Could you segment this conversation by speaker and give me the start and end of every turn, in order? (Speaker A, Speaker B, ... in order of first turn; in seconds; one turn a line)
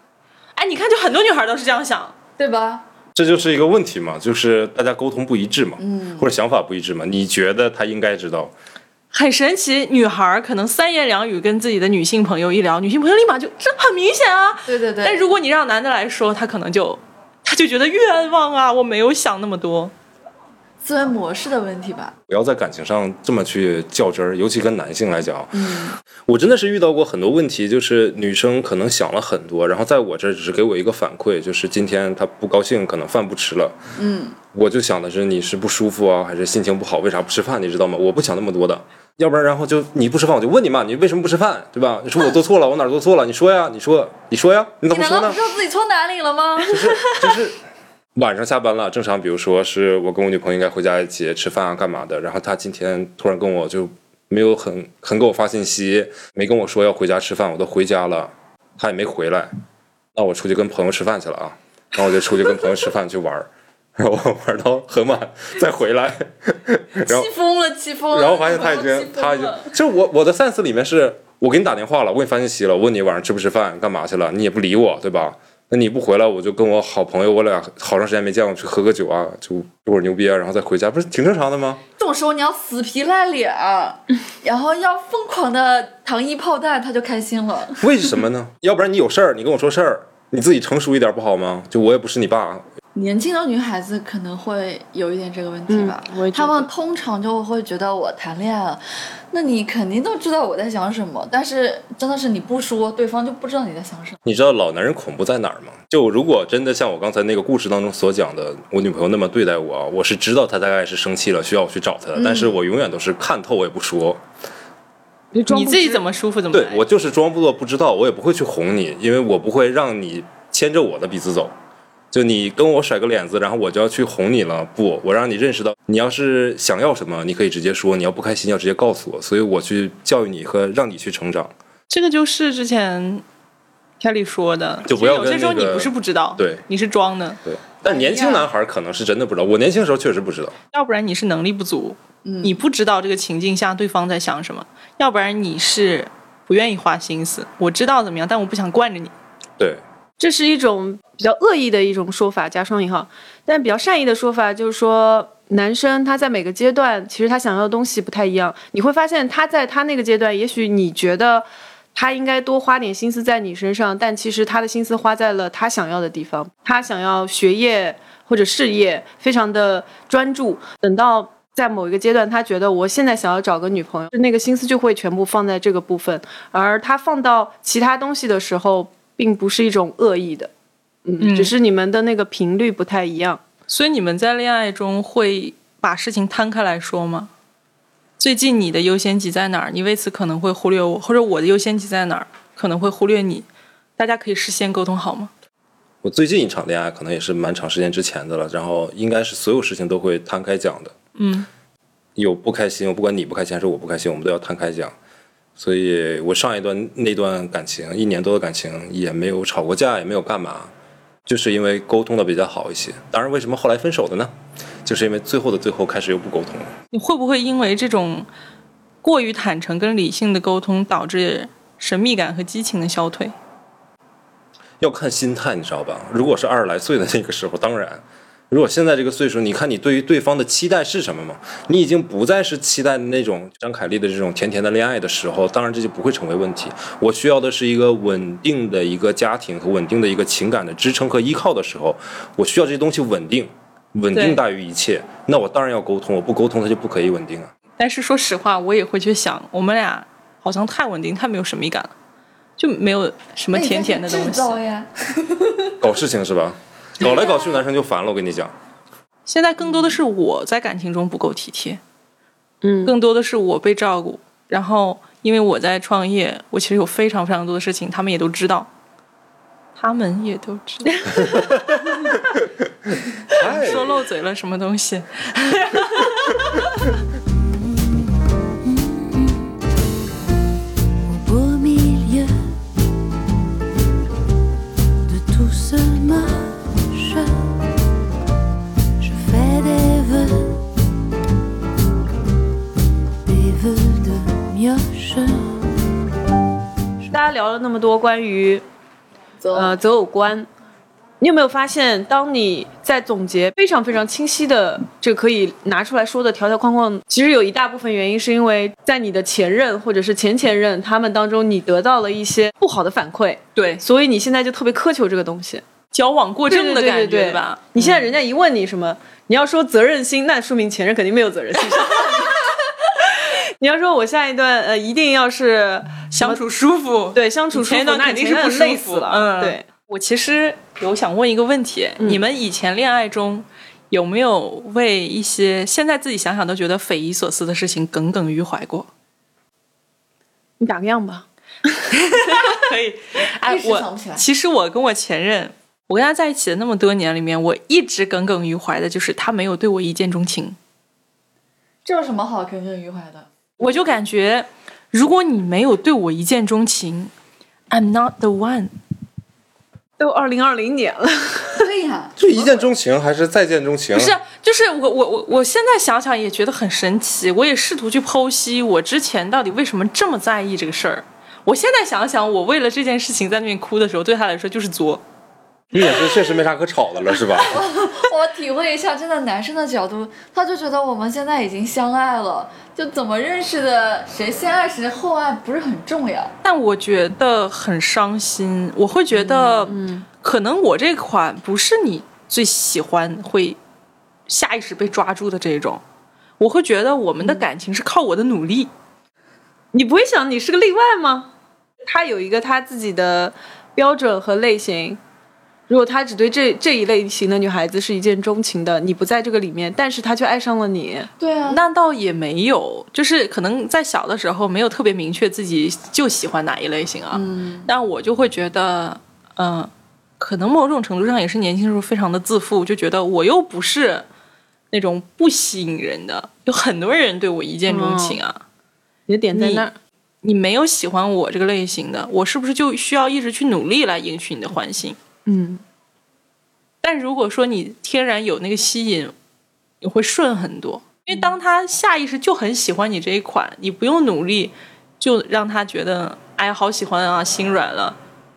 Speaker A: 0.5-2.1
Speaker B: 2.4-2.8
Speaker C: 3.1-8.5
Speaker B: 5.8-6.3
Speaker A: 9.1-19.9
Speaker B: 14.7-15.3
Speaker B: 20.8-22.1
Speaker C: 22.3-33.8
Speaker B: 25.5-26.0
Speaker B: 34.0-34.4
Speaker C: 34.5-45.4
Speaker B: 44.9-47.2
Speaker C: 46.7-47.6
Speaker C: 48.1-59.5
Speaker C: 60.1-67.3
Speaker B: 67.0-69.7
Speaker C: 68.1-81.8
Speaker B: 82.0-87.9
Speaker C: 87.8-92.7
Speaker B: 92.9-104.2
Speaker D: 95.7-96.7
Speaker C: 104.2-114.2
Speaker B: 112.2-112.5
Speaker D: 115.3-116.0
Speaker A: 115.5-116.8
Speaker C: 116.5-121.5
Speaker C: 122.1-131.5
Speaker A: 131.9-133.2
Speaker A: 134.0-137.4
Speaker C: 134.8-136.6
Speaker C: 137.4-140.5
Speaker B: 137.8-138.5
Speaker A: 140.7-149.1
Speaker B: 142.2-142.6
Speaker D: 150.2-180.5
Speaker D: 181.1-183.4
Speaker A: 181.2-181.5
Speaker A: 183.7-187.3
Speaker A: 188.2-193.4
Speaker A: 194.0-195.3
Speaker C: 196.0-200.9
Speaker A: 201.2-201.5
Speaker C: 202.2-204.9
Speaker C: 205.6-210.7
Speaker C: 211.2-214.3
Speaker C: 214.8-216.7
Speaker A: 216.9-218.3
Speaker A: 219.0-223.3
Speaker C: 224.8-247.5
Speaker A: 244.1-244.4
Speaker A: 247.8-251.9
Speaker A: 252.6-254.5
Speaker B: 253.5-255.8
Speaker C: 255.8-258.5
Speaker A: 259.2-261.8
Speaker D: 262.6-262.9
Speaker A: 262.8-268.7
Speaker A: 269.8-271.5
Speaker C: 271.3-271.6
Speaker C: 273.3-274.0
Speaker A: 273.3-276.9
Speaker E: 278.5-279.6
Speaker E: 281.1-282.5
Speaker E: 285.0-287.6
Speaker E: 289.0-290.6
Speaker E: 293.2-296.0
Speaker D: 297.1-298.6
Speaker B: 299.4-299.8
Speaker D: 299.5-300.5
Speaker D: 301.2-315.6
Speaker A: 313.5-313.8
Speaker A: 315.9-318.1
Speaker D: 316.5-326.4
Speaker A: 326.1-338.9
Speaker D: 327.1-329.6
Speaker D: 340.6-341.2
Speaker A: 341.9-350.6
Speaker B: 343.5-344.2
Speaker B: 351.8-353.3
Speaker A: 353.6-357.1
Speaker A: 357.7-358.7
Speaker D: 360.0-361.6
Speaker B: 361.6-362.7
Speaker C: 362.2-364.1
Speaker A: 363.9-375.0
Speaker C: 375.7-377.6
Speaker B: 377.3-386.3
Speaker A: 386.4-393.6
Speaker D: 389.1-390.1
Speaker A: 394.3-395.8
Speaker A: 396.4-398.7
Speaker D: 399.7-401.3
Speaker D: 401.9-405.0
Speaker D: 405.7-411.1
Speaker B: 411.2-411.6
Speaker A: 411.5-424.0
Speaker B: 417.1-417.7
Speaker A: 424.7-428.4
Speaker D: 427.7-428.2
Speaker D: 429.1-429.7
Speaker A: 429.3-429.7
Speaker A: 430.2-435.0
Speaker D: 435.2-435.6
Speaker A: 436.8-439.1
Speaker A: 439.8-448.0